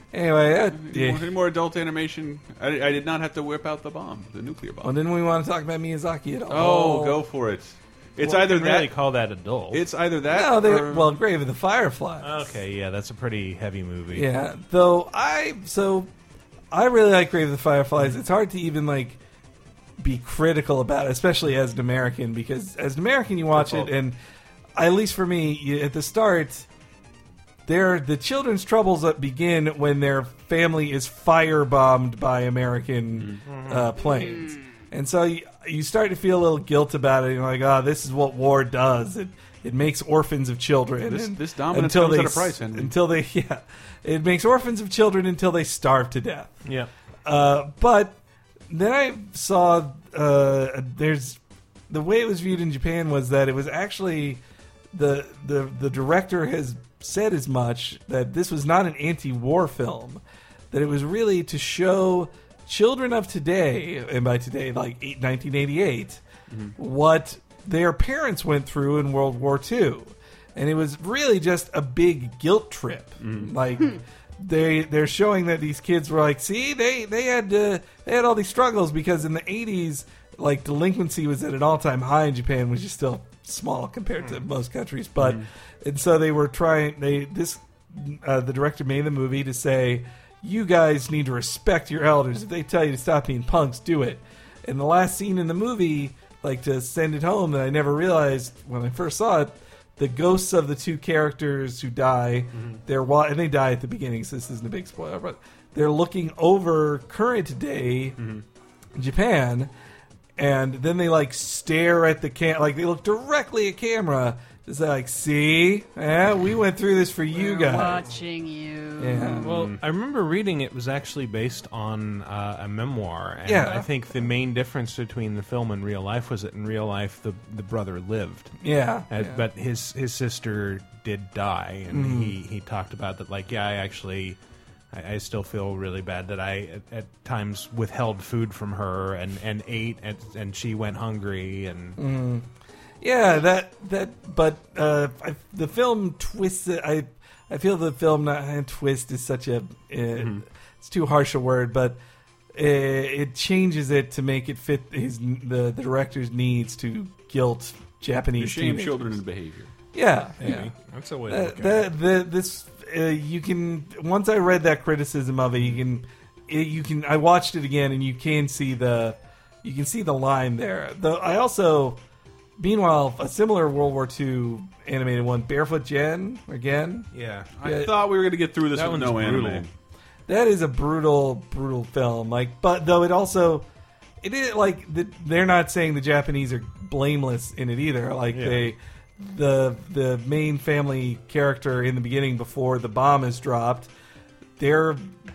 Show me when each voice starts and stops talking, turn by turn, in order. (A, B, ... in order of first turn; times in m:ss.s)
0:00.1-0:01.3 A
0:00.7-0:04.9 B
0:04.8-0:07.2 A
0:06.5-0:08.9 B
0:08.2-0:09.8 C
0:09.7-0:11.2 B
0:10.3-0:12.5 A
0:12.2-0:14.3 C
0:14.1-0:16.1 A
0:16.7-0:19.2 A
0:20.0-0:24.2 A
0:24.8-0:26.7 A
0:27.7-0:46.6 A
0:33.5-0:33.9 C
0:34.0-0:34.7 D
0:41.0-0:43.0 B
0:47.2-0:48.2 A
0:48.7-0:54.4 A
0:54.9-1:06.2 A
1:06.8-1:48.2 A
1:13.2-1:13.5 B
1:25.2-1:25.5 B
1:42.6-1:42.8 B
1:48.2-1:48.4 B
1:49.0-1:49.7 A
1:50.4-1:58.0 A
1:57.3-1:59.4 D
1:59.0-1:59.5 A
1:59.4-2:08.6 C
1:59.5-1:59.8 B
2:03.5-2:03.9 A
2:08.6-2:09.4 A
2:09.1-2:14.4 C
2:11.9-2:12.4 A
2:14.9-2:22.0 C
2:22.0-2:22.5 A
2:23.0-2:32.0 A
2:30.2-2:30.4 B
2:32.5-2:39.2 A
2:38.4-2:39.7 B
2:39.9-2:40.7 A
2:40.4-2:41.9 C
2:41.3-2:52.0 A
2:52.6-2:57.1 A
2:57.1-2:57.5 C
2:57.6-2:59.7 B
2:57.6-2:57.9 A
2:58.7-2:59.7 C
3:00.3-3:03.7 A
3:04.2-3:13.9 A
3:08.3-3:08.7 C
3:14.6-3:15.1 A